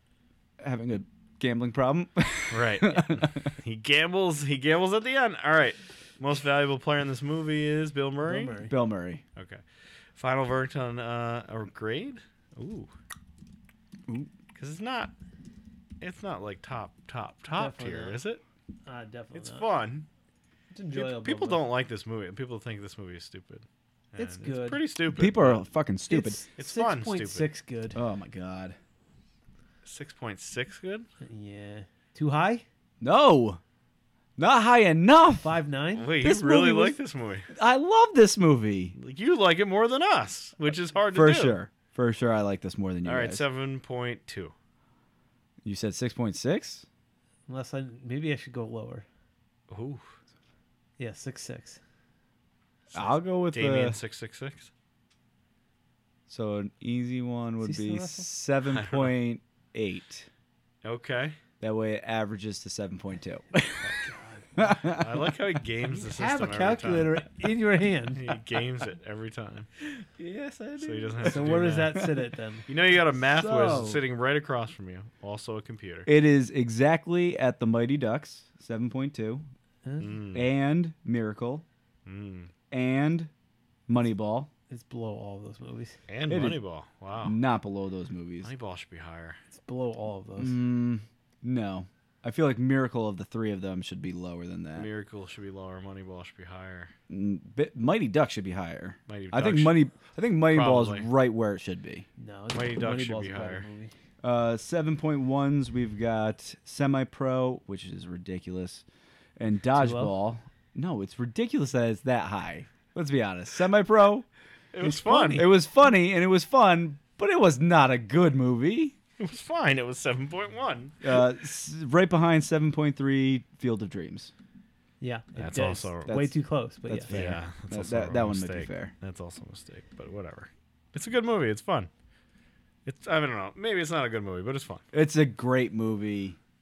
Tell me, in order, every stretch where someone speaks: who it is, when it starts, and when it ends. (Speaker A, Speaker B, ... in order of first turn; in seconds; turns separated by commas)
Speaker A: 0.6-3.5, Speaker B: 2.5-8.6, Speaker C: 8.2-8.7, Speaker A: 8.6-9.2, Speaker B: 9.4-9.6, Speaker B: 10.2-12.9, Speaker B: 14.6-15.1, Speaker B: 16.0-18.4, Speaker C: 17.6-18.2, Speaker C: 18.9-19.7, Speaker B: 19.3-20.1, Speaker C: 20.7-21.6, Speaker B: 20.9-25.6, Speaker C: 24.2-24.8, Speaker A: 25.1-26.4, Speaker C: 26.1-28.0, Speaker B: 26.6-27.5, Speaker A: 27.9-28.8, Speaker B: 29.9-31.1, Speaker C: 31.2-32.6, Speaker A: 33.0-33.6, Speaker A: 34.4-35.6, Speaker C: 35.4-36.1, Speaker B: 36.0-37.5, Speaker A: 36.2-37.0, Speaker A: 37.5-39.0, Speaker B: 39.0-41.6, Speaker A: 41.1-43.4, Speaker B: 43.0-44.5, Speaker A: 45.6-46.9, Speaker C: 47.5-49.0, Speaker B: 49.7-50.1, Speaker C: 51.0-51.8, Speaker B: 52.9-54.7, Speaker A: 52.9-54.0, Speaker A: 56.3-60.3, Speaker C: 57.6-58.3, Speaker B: 58.7-59.1, Speaker B: 60.8-61.4, Speaker A: 61.6-63.9, Speaker C: 63.8-64.9, Speaker A: 64.6-65.3, Speaker B: 64.8-67.3, Speaker C: 65.9-68.4, Speaker B: 68.2-69.7, Speaker A: 70.0-72.1, Speaker B: 70.8-72.1, Speaker C: 71.2-72.6, Speaker B: 72.7-76.1, Speaker A: 73.2-74.0, Speaker A: 76.1-79.5, Speaker C: 79.8-80.1, Speaker B: 80.0-80.5, Speaker A: 80.3-81.7, Speaker B: 82.1-82.5, Speaker A: 82.7-83.3, Speaker A: 83.9-84.5, Speaker C: 84.7-86.0, Speaker B: 86.1-87.4, Speaker A: 86.3-86.6, Speaker A: 87.2-88.5, Speaker B: 88.4-89.4, Speaker C: 89.5-90.6, Speaker A: 90.4-94.9, Speaker B: 94.8-96.9, Speaker A: 97.1-102.1, Speaker B: 99.1-99.9, Speaker B: 100.4-101.1, Speaker C: 102.2-103.9, Speaker B: 102.5-103.7, Speaker A: 104.2-108.8, Speaker A: 109.4-114.3, Speaker C: 109.8-110.1, Speaker B: 114.7-115.4, Speaker C: 114.8-115.5, Speaker A: 115.3-119.0, Speaker B: 119.2-121.2, Speaker A: 121.0-124.3, Speaker C: 125.0-127.3, Speaker B: 125.4-126.3, Speaker A: 126.9-128.9, Speaker B: 127.1-131.9, Speaker B: 132.9-134.8, Speaker A: 134.9-136.4